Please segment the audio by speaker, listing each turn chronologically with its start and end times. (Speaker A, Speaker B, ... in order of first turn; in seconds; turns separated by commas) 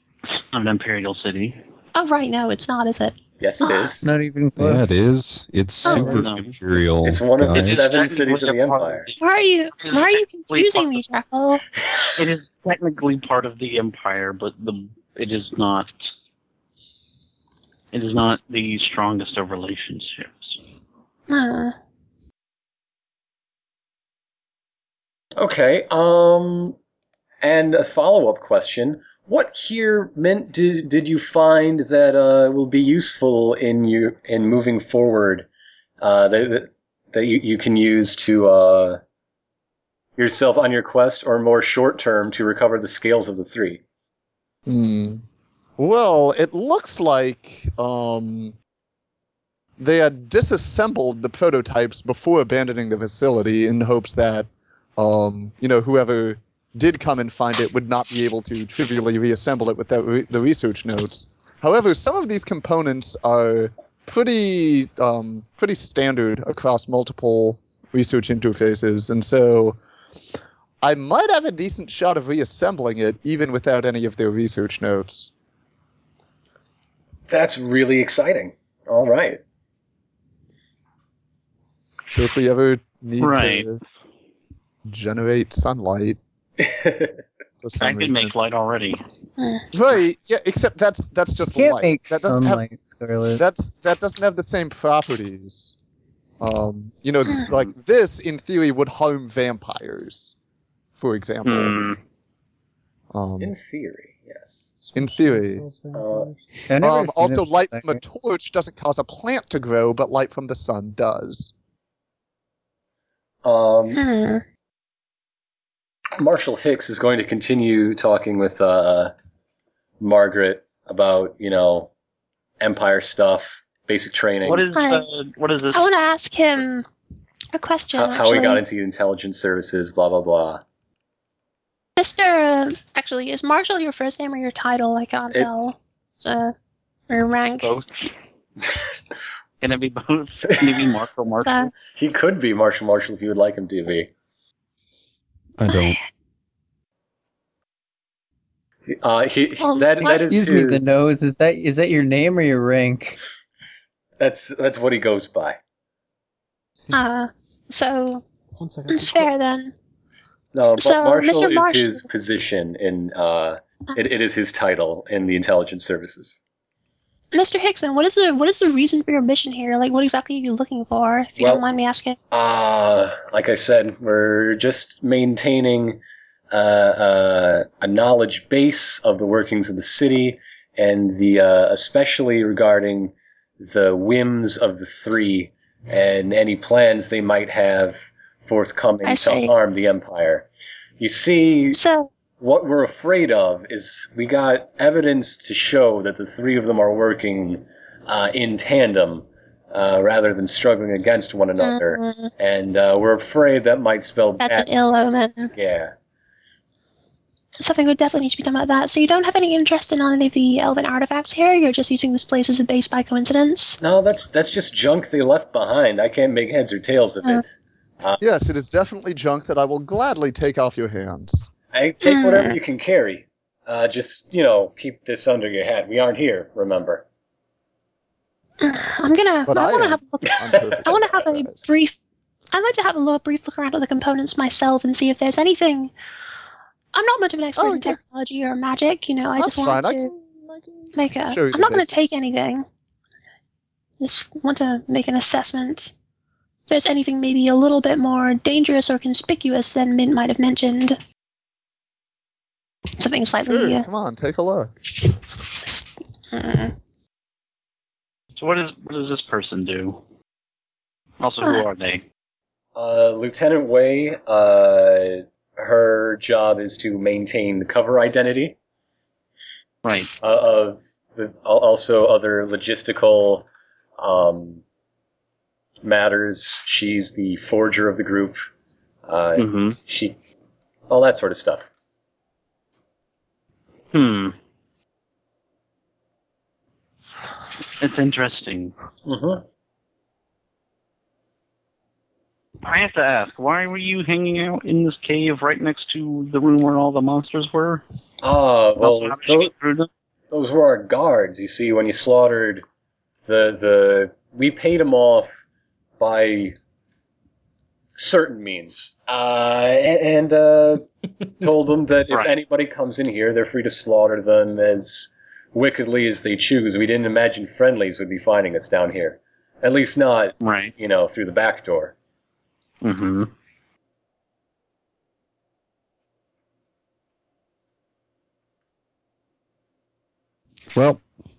Speaker A: 0.5-1.6, Speaker B: 1.9-3.9, Speaker C: 3.4-4.1, Speaker D: 4.0-5.1, Speaker E: 4.6-7.8, Speaker B: 5.8-6.2, Speaker A: 5.9-6.9, Speaker D: 5.9-6.2, Speaker C: 7.0-9.1, Speaker A: 7.5-9.2, Speaker B: 9.2-11.6, Speaker A: 9.8-11.0, Speaker A: 12.2-15.9, Speaker A: 17.9-20.6, Speaker B: 21.3-21.8, Speaker C: 25.4-26.8, Speaker C: 27.4-35.5, Speaker C: 36.0-39.0, Speaker C: 40.2-43.8, Speaker F: 44.7-45.2, Speaker F: 45.8-48.5, Speaker F: 49.8-69.8, Speaker F: 70.8-75.3, Speaker C: 77.3-79.4, Speaker F: 82.1-83.8, Speaker A: 83.2-83.7, Speaker F: 84.9-86.2, Speaker C: 86.6-87.2, Speaker F: 87.6-88.3, Speaker A: 87.8-89.0, Speaker B: 89.4-89.7, Speaker F: 89.7-92.6, Speaker D: 91.5-93.4, Speaker F: 93.3-95.8, Speaker F: 96.4-100.3, Speaker F: 101.0-101.9, Speaker A: 101.5-102.0, Speaker F: 103.1-103.5, Speaker C: 103.4-104.8, Speaker F: 104.9-105.7, Speaker G: 105.0-106.2, Speaker C: 105.9-106.3, Speaker D: 106.7-108.0, Speaker F: 106.8-111.5, Speaker C: 113.4-114.0, Speaker B: 114.0-114.4, Speaker C: 116.2-119.1, Speaker C: 120.0-121.9, Speaker C: 122.6-124.7, Speaker A: 124.4-125.9, Speaker B: 124.7-125.0, Speaker B: 125.7-126.9, Speaker B: 127.5-128.6, Speaker C: 128.0-130.6, Speaker B: 132.0-136.5, Speaker B: 137.1-137.7, Speaker A: 137.6-137.9, Speaker A: 139.6-141.7, Speaker C: 140.5-140.9, Speaker B: 141.4-141.7, Speaker C: 141.9-144.1, Speaker E: 145.6-146.0, Speaker B: 145.7-146.0, Speaker C: 148.9-151.0, Speaker B: 149.6-150.3, Speaker D: 150.0-153.2, Speaker C: 154.2-155.6, Speaker B: 156.9-158.2, Speaker G: 158.6-159.3, Speaker B: 158.9-159.7, Speaker C: 160.5-166.4, Speaker B: 160.8-162.1, Speaker B: 167.3-172.2, Speaker C: 171.4-171.6, Speaker C: 172.3-190.5, Speaker B: 189.1-189.5, Speaker C: 191.0-191.8, Speaker B: 191.7-192.1, Speaker C: 192.4-204.7, Speaker B: 201.6-202.3, Speaker B: 204.4-205.5, Speaker C: 205.5-205.9, Speaker B: 207.6-213.8, Speaker C: 213.8-218.2, Speaker F: 218.2-221.5, Speaker C: 221.7-227.0, Speaker B: 222.0-222.6, Speaker B: 228.6-232.0, Speaker F: 229.5-231.7, Speaker B: 232.5-235.9, Speaker B: 236.9-240.1, Speaker F: 237.6-238.0, Speaker F: 239.4-242.3, Speaker B: 240.9-242.7, Speaker B: 244.0-245.9, Speaker B: 246.7-251.0, Speaker B: 253.0-253.9, Speaker F: 253.4-254.7, Speaker B: 255.7-256.8, Speaker A: 258.4-260.0, Speaker A: 261.2-262.0, Speaker C: 262.8-268.6, Speaker A: 269.8-270.1, Speaker C: 270.2-273.5, Speaker C: 274.0-274.6, Speaker C: 275.8-278.4, Speaker C: 279.1-280.1, Speaker A: 279.4-279.8, Speaker C: 280.9-281.7, Speaker A: 283.9-284.4, Speaker A: 287.8-288.7, Speaker C: 289.1-289.4, Speaker A: 292.6-297.8, Speaker C: 298.2-299.5, Speaker A: 298.8-299.9, Speaker C: 300.3-302.6, Speaker C: 303.3-305.4, Speaker C: 306.0-306.6, Speaker C: 308.0-310.9, Speaker C: 311.4-321.9, Speaker A: 320.4-320.7, Speaker A: 322.8-323.3, Speaker E: 330.7-331.0